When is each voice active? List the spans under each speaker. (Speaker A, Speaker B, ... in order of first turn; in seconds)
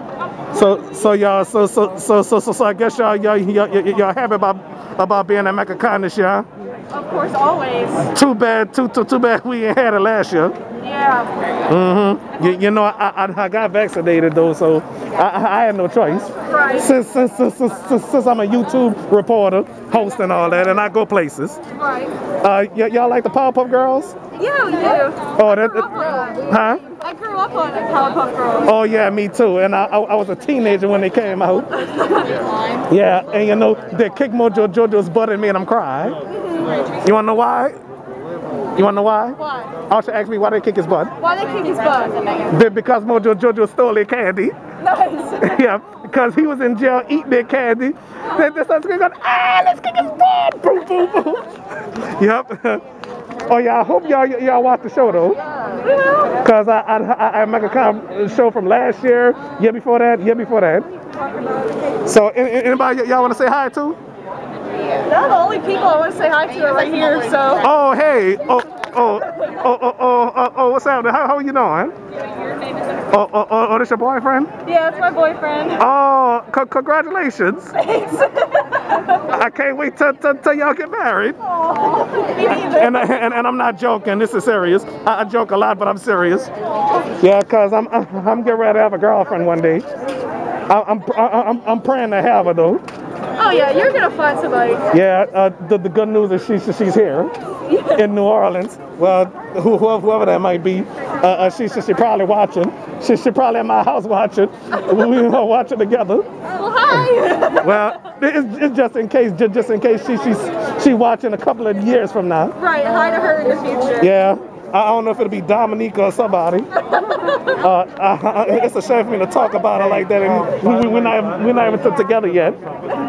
Speaker A: 0.5-6.5, 8.0-10.6, 11.7-21.6, 22.4-24.2, 25.4-26.8, 28.6-31.8, 32.9-36.2, 37.0-37.8, 38.7-41.1, 42.5-44.5, 45.4-52.8, 53.5-55.4, 56.4-60.9, 62.0-64.0, 67.6-71.9, 73.1-74.5, 75.8-77.8, 79.1-81.4, 82.5-86.5, 87.2-89.8, 90.7-92.8, 94.9-106.3, 106.9-112.6, 114.0-116.7, 117.5-122.6
Speaker B: 6.9-8.1, 10.8-11.4, 16.4-16.9, 21.7-22.1, 24.4-28.7, 31.8-32.6, 36.3-36.9, 41.2-42.5, 44.8-45.6, 55.7-56.4, 61.4-61.7, 64.9-67.7, 74.6-75.8, 77.8-79.1, 81.5-83.1, 93.3-94.9, 97.7-98.0, 106.5-107.9, 112.6-114.1, 117.0-117.5